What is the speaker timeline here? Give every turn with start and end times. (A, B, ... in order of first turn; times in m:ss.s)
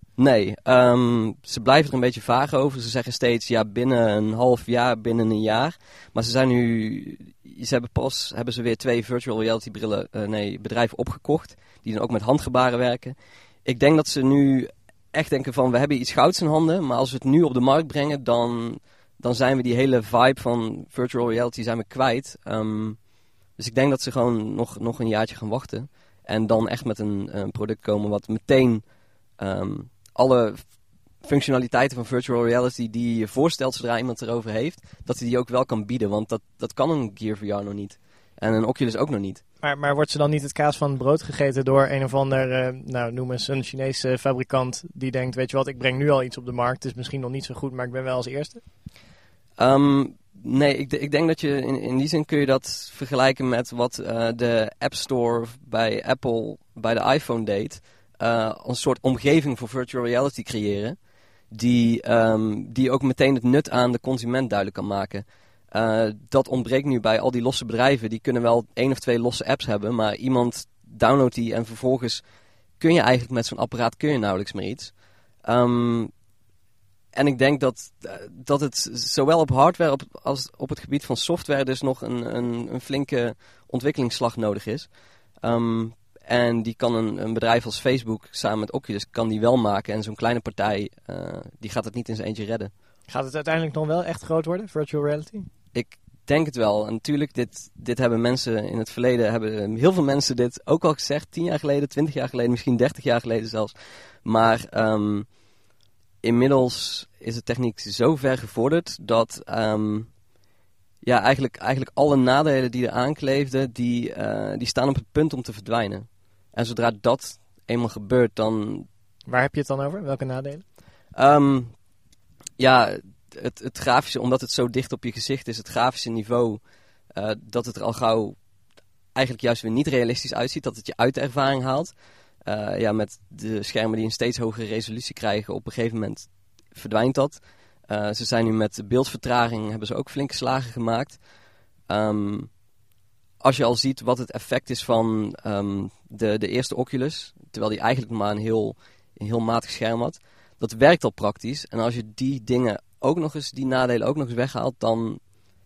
0:00.2-0:23.0 A
0:23.6-0:39.4 A
0:39.6-0:48.6 B
0:49.6-1:01.0 A
1:01.5-1:12.2 A
1:12.8-1:16.1 A
1:17.1-1:32.7 A
1:33.1-1:35.5 B
1:35.7-1:45.3 A
1:46.2-1:50.2 A
1:51.0-1:58.9 A
1:59.3-2:00.6 B
2:01.1-2:01.8 A
2:02.6-2:08.4 A
2:09.1-2:21.2 A
2:21.9-2:22.6 A
2:23.4-2:35.4 A